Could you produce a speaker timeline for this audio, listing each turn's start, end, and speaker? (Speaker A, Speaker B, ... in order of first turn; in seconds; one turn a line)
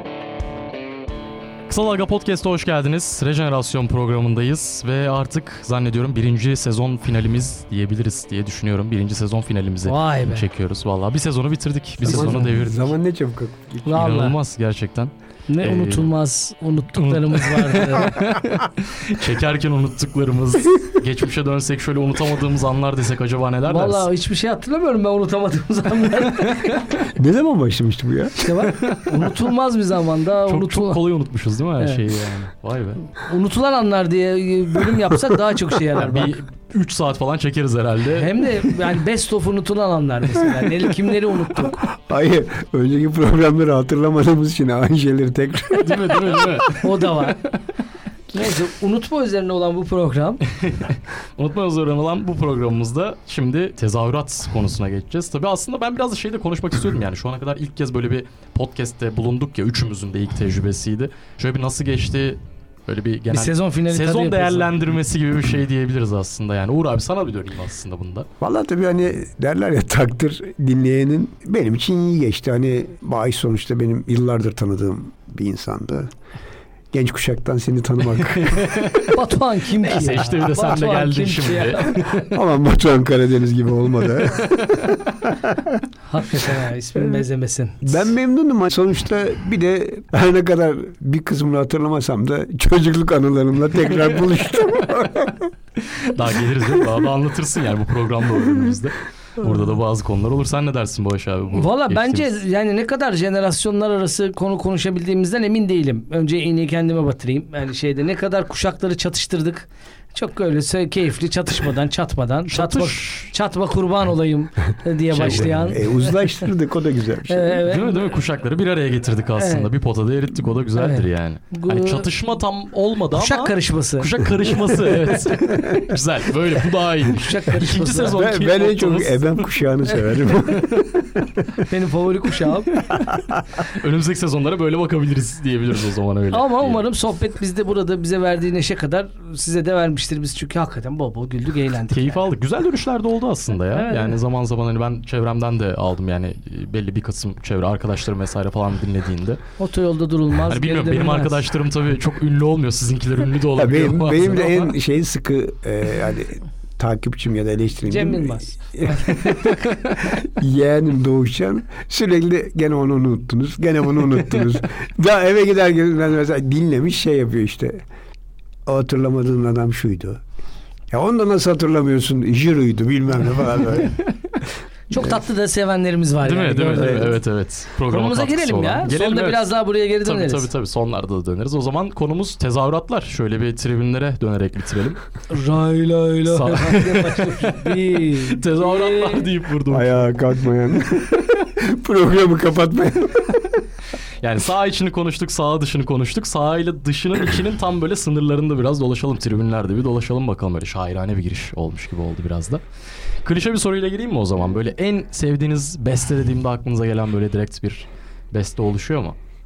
Speaker A: 1.7-12.8
Speaker B: 9.8-10.4
Speaker C: 12.1-14.1
Speaker B: 12.1-12.5
Speaker B: 13.9-14.3
Speaker A: 13.9-16.1
Speaker B: 15.5-18.2
Speaker A: 17.0-24.1
Speaker B: 23.7-26.8
Speaker C: 27.1-28.6
Speaker B: 28.4-31.0
Speaker A: 28.7-29.2
Speaker A: 30.5-33.0
Speaker B: 33.2-36.3
Speaker A: 36.0-38.6
Speaker B: 38.1-41.8
Speaker C: 41.7-46.6
Speaker A: 45.7-47.5
Speaker B: 46.8-47.4
Speaker B: 48.3-50.4
Speaker A: 50.5-68.3
Speaker B: 63.3-64.7
Speaker C: 68.4-76.1
Speaker C: 76.9-79.1
Speaker A: 78.1-79.2
Speaker B: 79.1-82.0
Speaker A: 79.8-82.3
Speaker C: 82.3-85.8
Speaker B: 86.1-88.0
Speaker C: 87.8-95.5
Speaker A: 95.9-102.3
Speaker B: 101.5-116.1
Speaker A: 112.5-113.3
Speaker A: 115.1-115.8
Speaker C: 115.2-117.6
Speaker B: 117.3-118.1
Speaker A: 117.7-129.4
Speaker B: 119.4-119.7
Speaker B: 120.8-122.1
Speaker B: 123.1-125.3
Speaker C: 125.5-125.8
Speaker B: 127.1-128.1
Speaker C: 128.1-131.6
Speaker A: 130.5-130.8
Speaker B: 131.6-132.7
Speaker C: 132.9-133.4
Speaker A: 133.7-136.8
Speaker B: 136.3-142.2
Speaker A: 141.9-149.4
Speaker B: 143.7-144.2
Speaker B: 149.6-151.4
Speaker A: 150.4-154.7
Speaker C: 153.6-167.8
Speaker B: 157.9-159.6
Speaker C: 168.7-170.2
Speaker C: 170.9-174.0
Speaker B: 174.9-177.2
Speaker A: 176.2-185.0
Speaker C: 176.8-177.1
Speaker B: 177.9-180.5
Speaker B: 185.3-189.3
Speaker A: 186.3-190.1
Speaker C: 189.7-193.6
Speaker A: 194.2-202.6
Speaker A: 203.2-209.2